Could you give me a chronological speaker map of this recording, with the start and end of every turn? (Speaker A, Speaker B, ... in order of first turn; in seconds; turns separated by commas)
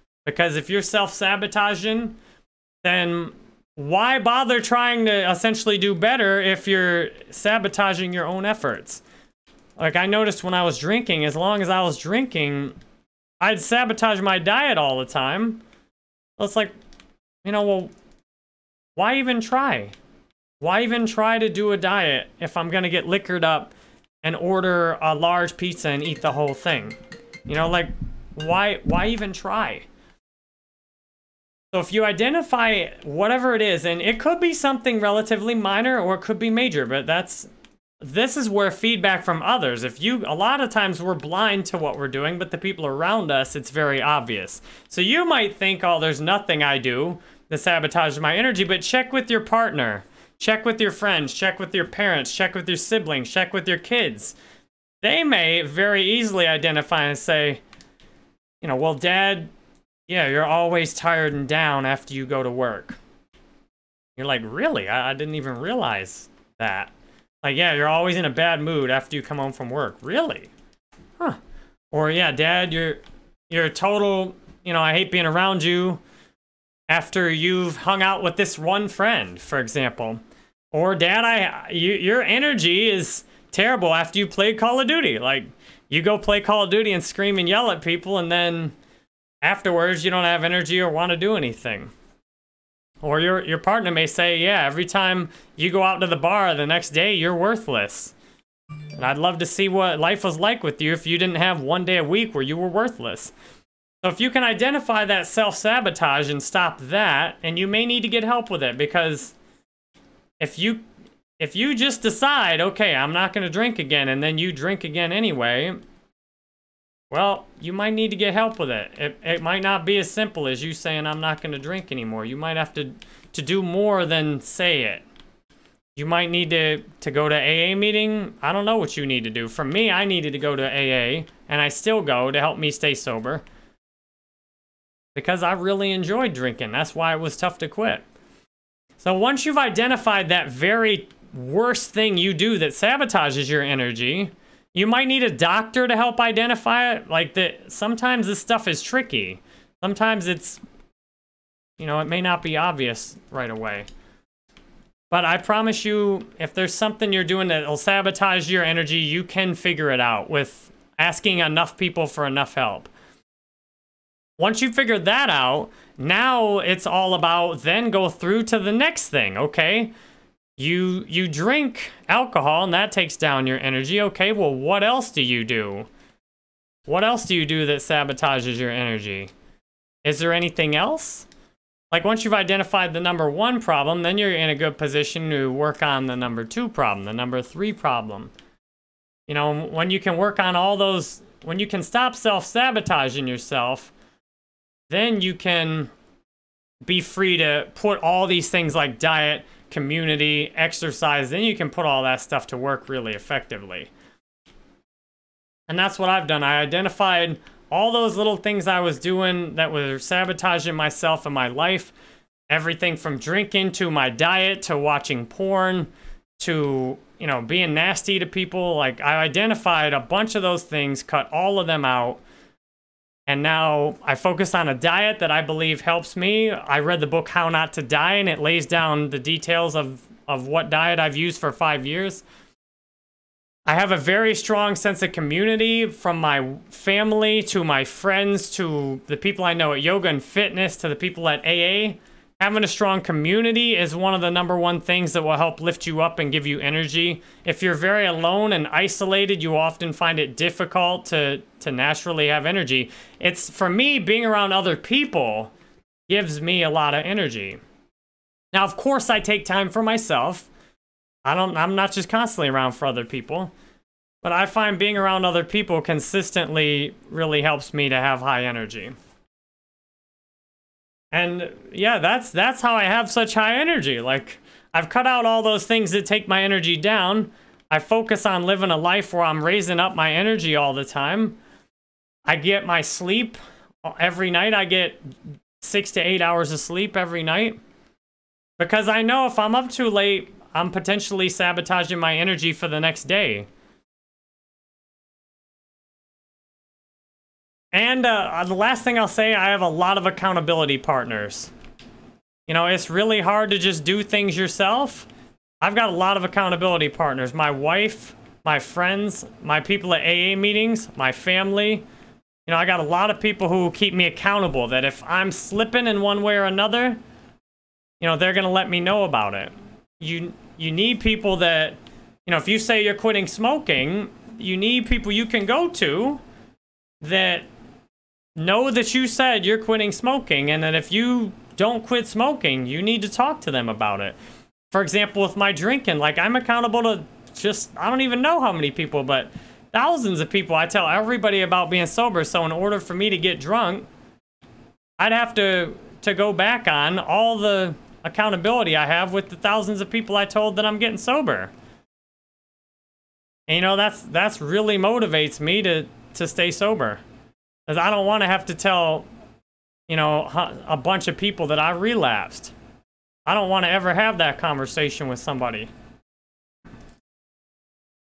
Speaker A: 0.2-2.2, Speaker A: 2.8-9.0, Speaker A: 9.8-12.8, Speaker A: 13.4-15.6, Speaker A: 16.4-16.7, Speaker A: 17.4-17.9, Speaker A: 18.9-19.9, Speaker A: 20.6-29.9, Speaker A: 31.7-37.5, Speaker A: 38.0-54.4, Speaker A: 55.0-57.6, Speaker A: 58.6-59.5, Speaker A: 60.1-63.0, Speaker A: 64.2-66.9, Speaker A: 67.4-70.5, Speaker A: 71.9-76.0, Speaker A: 76.9-80.2, Speaker A: 80.7-88.7, Speaker A: 89.4-91.9, Speaker A: 93.0-98.1, Speaker A: 98.9-103.3, Speaker A: 104.0-109.3, Speaker A: 110.4-110.8, Speaker A: 111.4-115.8, Speaker A: 117.1-125.0, Speaker A: 126.0-133.4, Speaker A: 135.1-138.0, Speaker A: 139.0-150.6, Speaker A: 151.8-153.9, Speaker A: 155.1-162.9, Speaker A: 164.4-169.9, Speaker A: 170.6-175.9, Speaker A: 176.9-179.3, Speaker A: 180.0-181.3, Speaker A: 181.9-188.3, Speaker A: 189.3-193.9, Speaker A: 194.9-195.9, Speaker A: 196.8-203.9, Speaker A: 205.7-211.9, Speaker A: 212.5-222.2, Speaker A: 223.3-232.2, Speaker A: 233.7-255.5, Speaker A: 256.1-257.6, Speaker A: 258.5-260.5, Speaker A: 261.2-263.5, Speaker A: 264.2-268.9, Speaker A: 271.1-281.4, Speaker A: 282.2-285.0, Speaker A: 285.6-287.6, Speaker A: 288.6-293.5, Speaker A: 297.7-301.5, Speaker A: 302.5-305.1, Speaker A: 305.6-311.8, Speaker A: 312.5-317.0, Speaker A: 318.0-326.2, Speaker A: 327.0-327.5, Speaker A: 328.4-334.1, Speaker A: 334.7-343.9, Speaker A: 345.0-351.5, Speaker A: 353.5-357.0, Speaker A: 357.7-359.1, Speaker A: 359.9-362.5, Speaker A: 363.2-365.7